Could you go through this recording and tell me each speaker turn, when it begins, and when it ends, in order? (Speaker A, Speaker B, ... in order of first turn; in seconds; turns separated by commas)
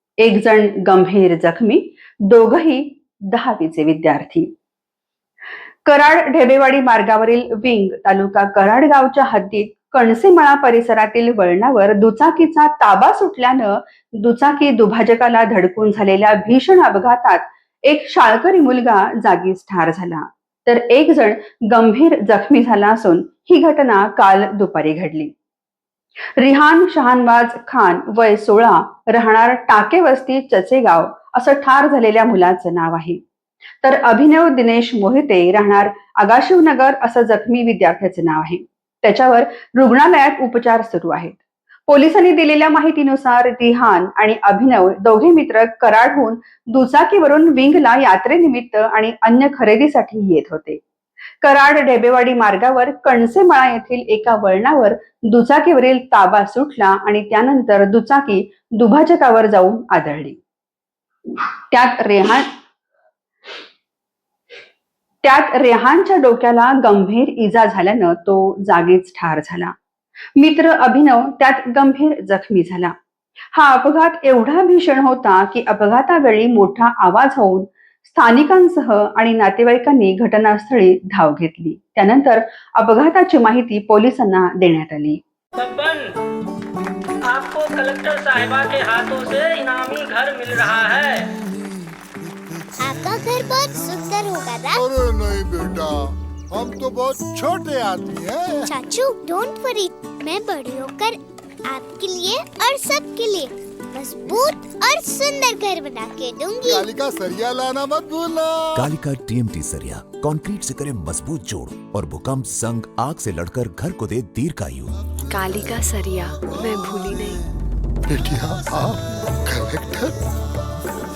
Speaker A: 0.2-4.5, Speaker A: 5.8-25.3, Speaker A: 26.4-33.2, Speaker A: 33.8-50.8, Speaker A: 51.4-60.4, Speaker A: 61.4-62.5, Speaker A: 65.2-69.7, Speaker A: 70.4-72.9, Speaker A: 73.5-85.2, Speaker B: 85.6-86.1, Speaker B: 87.2-91.3, Speaker C: 92.8-94.8, Speaker D: 94.7-98.8, Speaker C: 98.7-106.8, Speaker D: 106.6-108.9, Speaker E: 108.8-114.9, Speaker F: 115.3-117.4, Speaker D: 118.1-120.2